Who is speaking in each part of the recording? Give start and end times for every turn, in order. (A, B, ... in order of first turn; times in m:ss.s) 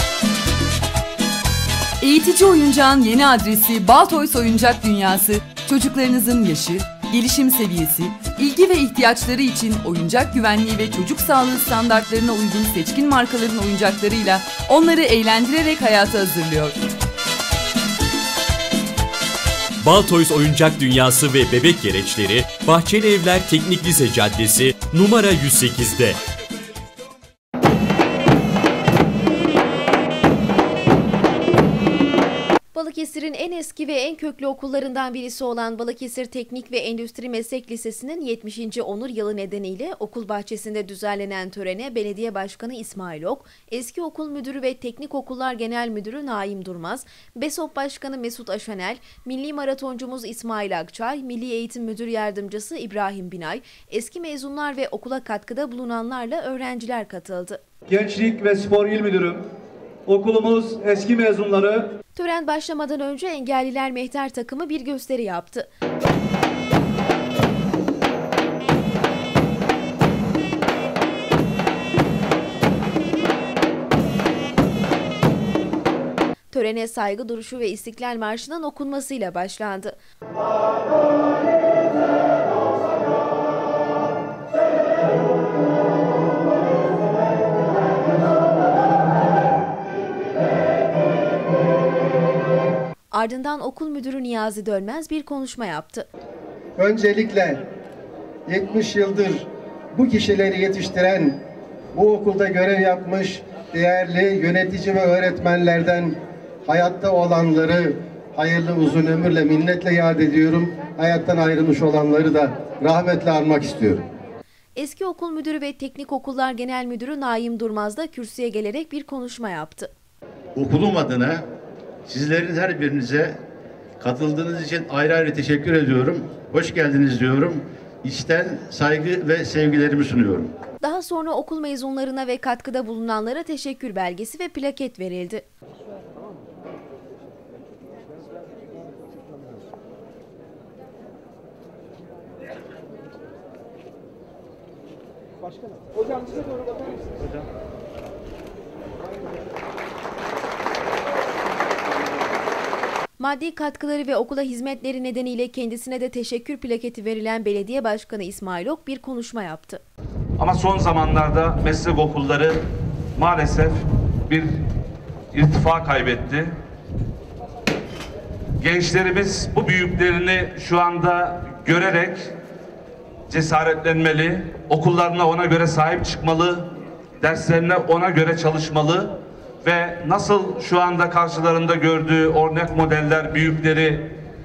0:02.0-0:16.8 A
0:19.8-0:26.1 B
0:32.7-0:57.6 C
0:57.9-0:59.4 D
1:00.1-1:02.0 D
1:02.1-1:05.6 C
1:16.5-1:19.9 C
1:33.1-1:36.1 C
1:36.8-1:37.6 E
1:38.5-1:41.4 E
1:41.9-1:46.1 E
1:46.7-1:54.0 E
1:54.8-1:59.9 C
2:00.5-2:01.4 F
2:02.0-2:03.4 F
2:04.0-2:10.5 F
2:10.8-2:15.5 C
2:33.2-2:39.8 C
2:40.4-2:42.6 G
2:43.2-2:44.5 G
2:45.3-2:46.5 G
2:48.6-2:52.3 G
2:53.3-2:56.7 G
2:57.2-2:59.1 G
2:59.6-3:04.1 G